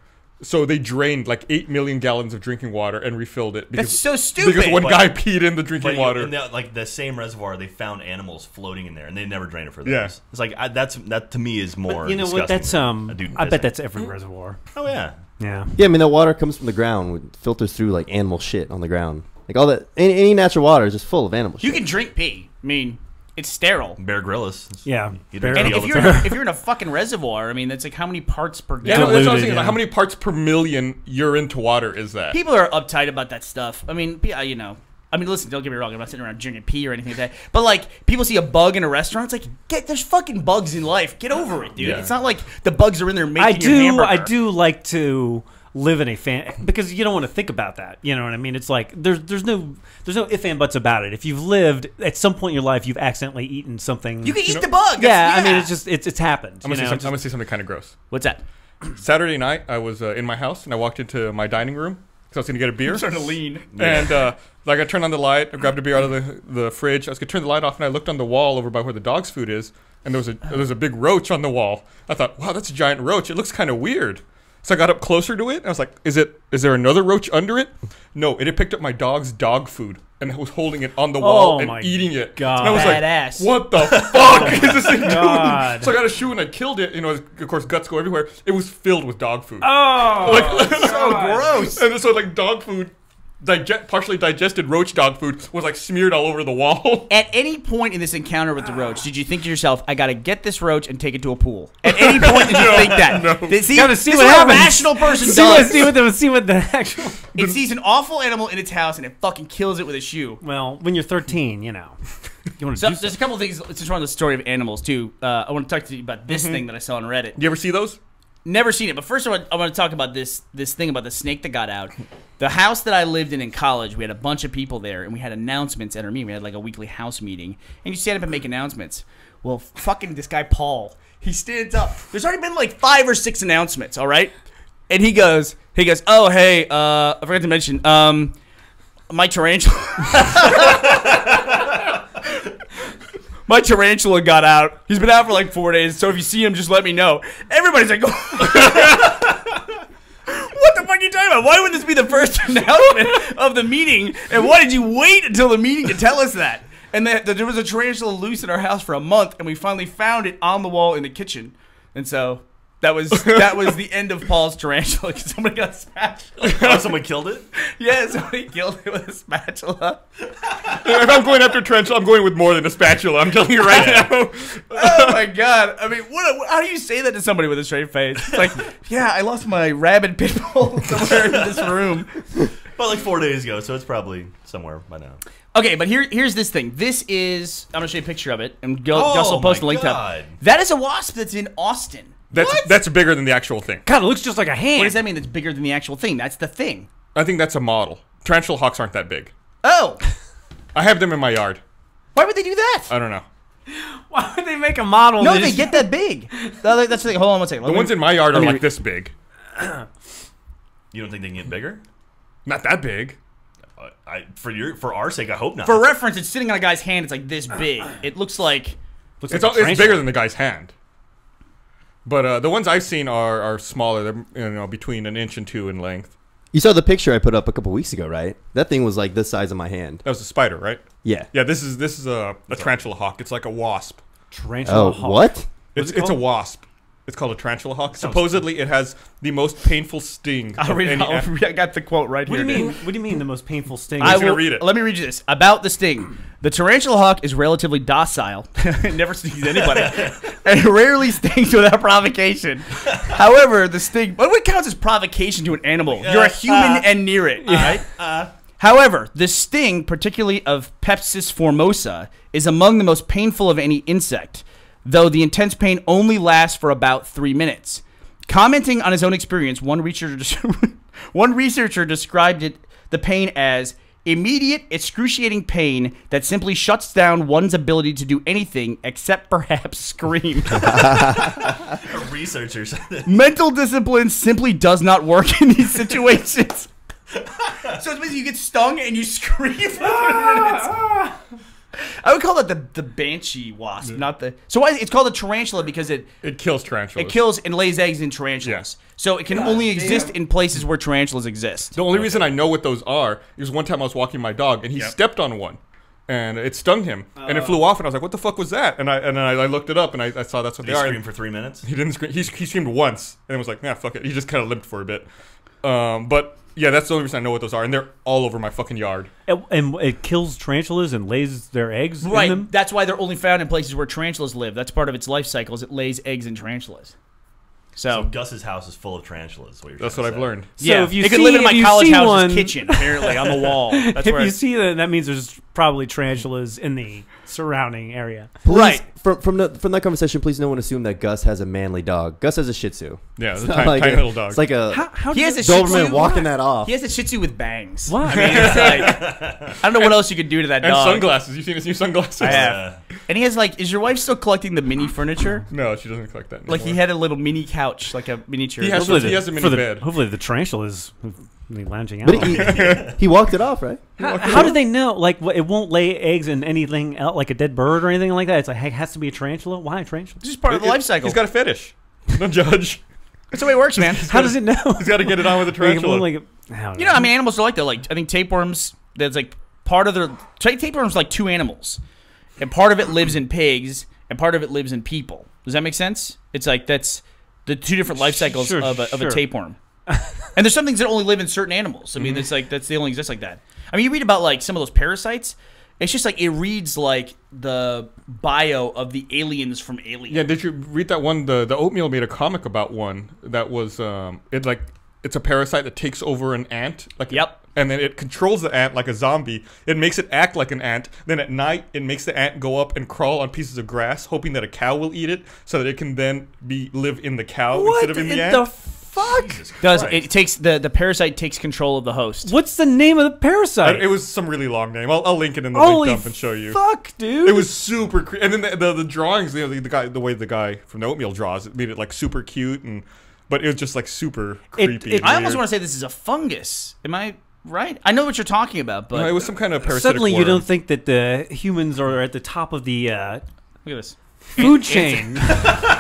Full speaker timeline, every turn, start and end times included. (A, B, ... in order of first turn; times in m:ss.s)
0:00.4-0:06.4 A
0:03.8-0:05.0 B
0:04.8-0:05.1 C
0:05.7-0:14.1 C
0:09.8-0:10.1 A
0:11.9-0:14.7 D
0:14.7-0:15.2 C
0:15.4-0:15.8 D
0:15.8-0:21.8 E
0:21.6-0:24.0 B
0:24.0-0:26.2 C
0:24.8-0:26.4 D
0:25.5-0:29.4 B
0:28.8-0:32.4 A
0:28.8-0:29.8 D
0:32.3-0:44.3 B
0:41.8-0:42.1 A
0:43.4-0:54.4 D
0:54.2-0:55.7 B
0:55.0-0:57.2 D
0:56.6-0:58.0 A
0:58.1-0:58.4 B
0:58.9-1:37.1 A
1:02.8-1:03.7 B
1:03.7-1:04.3 C
1:21.2-1:23.0 D
1:22.6-1:23.5 B
1:23.8-1:24.9 C
1:24.3-1:26.0 D
1:29.6-1:31.4 D
1:30.2-1:31.8 B
1:37.1-1:45.9 B
1:41.9-1:43.6 A
1:43.7-1:47.2 D
1:47.4-1:50.4 B
1:50.4-1:52.0 D
1:52.6-1:53.2 D
1:52.8-1:57.4 B
1:56.3-1:56.6 A
1:57.4-1:58.0 A
1:58.4-2:14.3 B
2:14.9-2:18.4 B
2:19.1-2:21.1 B
2:20.4-2:21.4 C
2:23.5-2:29.2 B
2:30.3-2:46.6 B
2:46.4-2:46.9 A
2:46.5-2:47.5 C
2:47.6-2:50.0 B
2:50.7-2:55.2 A
2:53.7-2:54.1 C
2:54.7-3:02.2 B
3:01.2-3:01.7 C
3:02.8-3:05.2 C
3:05.5-3:12.7 B
3:08.9-3:10.3 C
3:12.3-3:13.8 A
3:13.9-3:15.0 D
3:14.8-3:16.9 B
3:17.2-3:19.3 A
3:19.6-3:20.0 B
3:20.7-3:21.6 A
3:22.2-3:22.9 B
3:22.9-3:23.3 A
3:23.7-3:26.6 D
3:25.2-3:28.6 B
3:27.6-3:29.1 A
3:29.6-3:29.8 D
3:30.9-3:31.8 C
3:32.5-3:33.2 A
3:33.8-3:35.8 C
3:35.6-3:38.8 B
3:39.2-3:40.1 D
3:39.3-3:40.7 A
3:42.0-3:46.2 A
3:46.5-3:50.0 E
3:50.0-3:54.0 A
3:51.0-3:51.3 E
3:52.5-3:52.8 C
3:54.3-3:56.2 D
3:54.6-3:55.5 E
3:55.7-4:01.3 A
3:58.0-3:58.4 C
4:00.6-4:02.8 B
4:02.3-4:04.3 D
4:04.0-4:04.7 A
4:04.0-4:18.0 B
4:09.7-4:10.2 C
4:16.0-4:16.9 C
4:17.4-4:17.7 D
4:17.4-4:18.3 C
4:18.6-4:41.1 B
4:40.7-4:43.1 C
4:43.1-4:46.7 B
4:47.4-4:47.8 C
4:47.7-4:50.8 B
4:49.8-4:51.2 D
4:51.8-4:56.2 B
4:56.2-4:57.2 A
4:57.0-5:01.8 B
4:59.3-5:00.2 D
5:01.8-5:15.1 A
5:01.9-5:02.4 C
5:07.2-5:07.6 D
5:10.6-5:11.7 C
5:15.6-5:19.1 A
5:19.3-5:22.5 D
5:22.0-5:27.0 B
5:27.8-5:28.1 B
5:27.9-5:30.3 C
5:29.8-5:30.5 A
5:30.6-5:34.4 B
5:30.6-5:38.3 D
5:38.4-5:46.7 E
5:38.5-5:38.8 B
5:43.2-5:44.5 A
5:44.7-5:46.3 D
5:45.1-5:51.1 B
5:47.9-5:48.6 D
5:48.1-5:49.2 A
5:48.3-5:49.6 C
5:49.7-5:52.7 A
5:52.2-5:52.8 C
5:52.2-5:55.5 B
5:55.5-5:56.8 A
5:56.5-5:59.2 B
5:58.6-5:59.9 A
5:58.7-6:02.4 D
6:02.0-6:04.5 E
6:02.3-6:03.0 A
6:02.6-6:02.9 C
6:04.0-6:04.6 A
6:04.0-6:10.2 D
6:10.2-6:11.2 B
6:10.5-6:12.8 A
6:13.3-6:14.2 B
6:13.8-6:16.1 A
6:14.0-6:17.1 D
6:16.8-6:21.8 B
6:22.4-6:29.6 B
6:28.0-6:29.2 D
6:29.9-6:30.2 D
6:30.4-6:40.3 B
6:32.0-6:32.2 A
6:40.1-6:58.6 A
6:47.1-6:47.4 B
6:57.5-6:59.4 D
6:59.0-7:00.1 C
6:59.6-7:02.3 B
7:02.2-7:03.9 D
7:03.6-7:06.6 A
7:05.5-7:07.6 D
7:07.2-7:15.4 A
7:14.5-7:15.2 D
7:15.0-7:19.1 B
7:18.9-7:20.5 A
7:19.6-7:23.2 D
7:23.6-7:25.5 B
7:24.4-7:25.5 D